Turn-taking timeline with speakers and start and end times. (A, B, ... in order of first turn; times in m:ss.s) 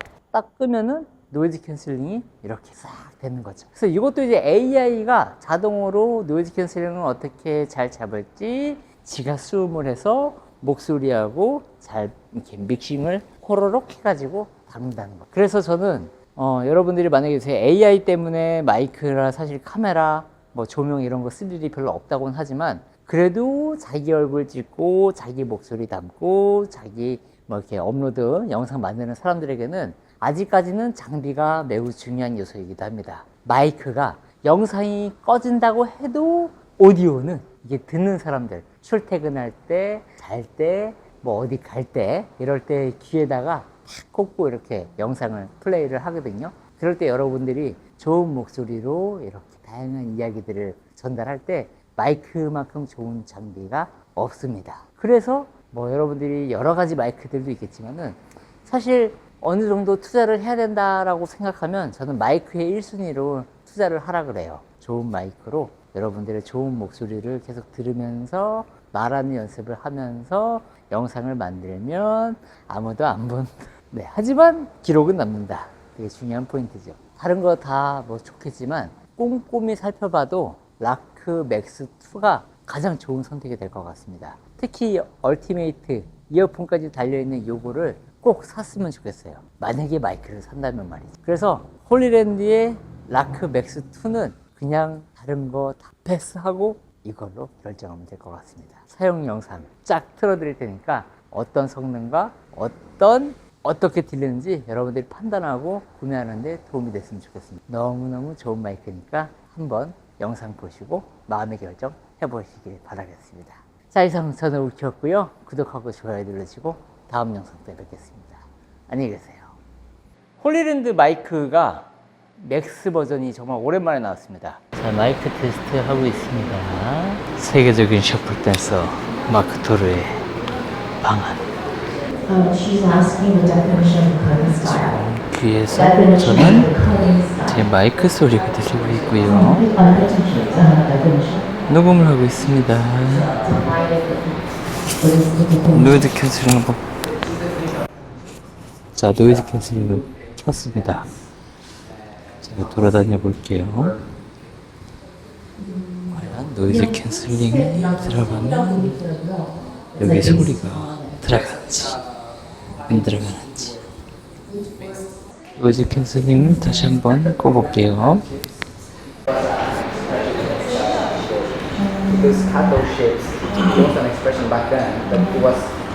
0:00.3-1:59.6 A
2:00.4-2:10.2 A
2:11.0-2:11.5 A
2:12.3-2:14.9 B
2:14.3-2:16.7 A
2:15.7-2:17.6 B
2:17.4-2:19.7 A
2:19.2-2:21.6 B
2:21.7-2:23.5 A
2:23.3-2:24.4 B
2:25.0-2:25.9 B
2:25.7-2:26.8 A
2:28.9-2:31.1 A
2:32.4-2:34.0 A
2:35.6-2:36.1 B
2:36.1-2:39.0 A
2:36.6-2:41.2 B
2:40.0-2:42.0 A
2:42.8-2:43.8 A
2:45.6-2:48.3 A
2:49.3-2:55.8 C
2:51.8-2:52.6 B